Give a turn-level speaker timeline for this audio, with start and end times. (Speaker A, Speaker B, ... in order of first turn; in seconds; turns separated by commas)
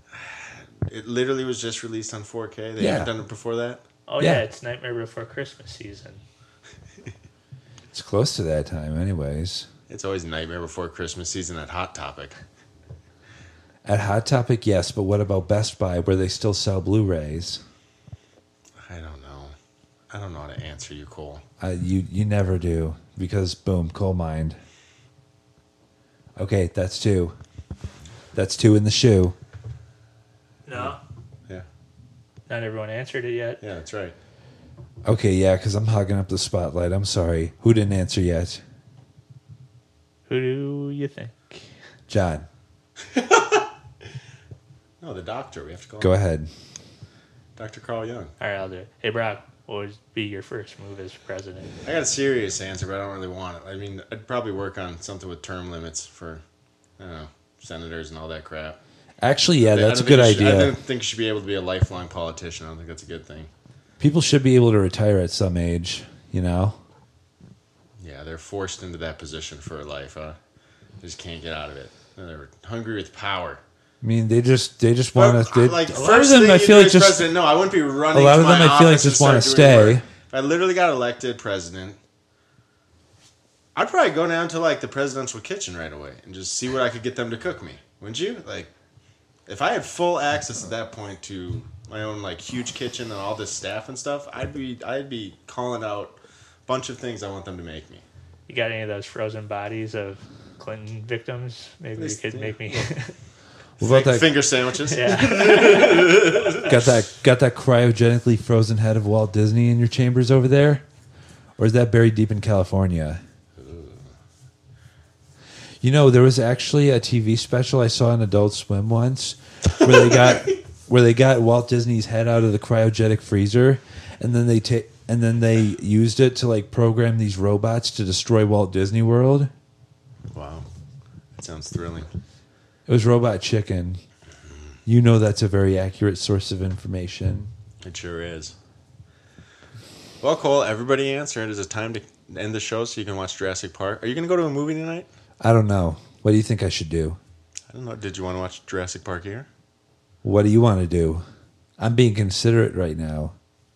Speaker A: 0.1-3.8, Speaker B: 2.8-3.1, Speaker C: 4.1-6.2, Speaker B: 7.9-9.7, Speaker A: 9.9-12.4, Speaker B: 13.8-17.6, Speaker A: 18.8-19.6, Speaker A: 20.1-21.4, Speaker B: 21.6-24.6, Speaker B: 26.4-27.4, Speaker B: 28.3-29.4, Speaker C: 30.7-31.0, Speaker C: 32.5-33.6, Speaker A: 33.6-34.2, Speaker B: 35.0-38.6, Speaker C: 40.3-41.6, Speaker B: 42.1-42.5, Speaker A: 43.1-43.6, Speaker A: 45.0-46.1, Speaker B: 46.0-46.5, Speaker A: 47.5-48.3, Speaker C: 48.4-51.7, Speaker A: 51.9-56.4, Speaker A: 57.0-58.8, Speaker B: 59.2-60.8, Speaker A: 59.6-63.5, Speaker B: 64.0-66.8, Speaker A: 68.0-70.4, Speaker A: 71.0-73.6, Speaker B: 74.0-77.3, Speaker A: 75.2-82.0, Speaker B: 78.1-80.0, Speaker A: 83.7-88.7, Speaker A: 89.5-98.0, Speaker C: 98.5-103.1, Speaker A: 102.0-102.9, Speaker B: 103.8-104.3, Speaker A: 103.8-106.7, Speaker C: 104.9-106.1, Speaker B: 106.5-110.8, Speaker B: 111.6-113.2, Speaker A: 113.6-114.1, Speaker B: 115.8-129.5, Speaker A: 130.3-130.7, Speaker A: 131.4-132.1, Speaker B: 132.9-134.0, Speaker B: 134.9-137.5, Speaker A: 137.8-138.6, Speaker A: 140.2-145.1, Speaker B: 145.4-147.2, Speaker A: 147.7-149.5, Speaker B: 150.2-151.2, Speaker B: 151.8-153.3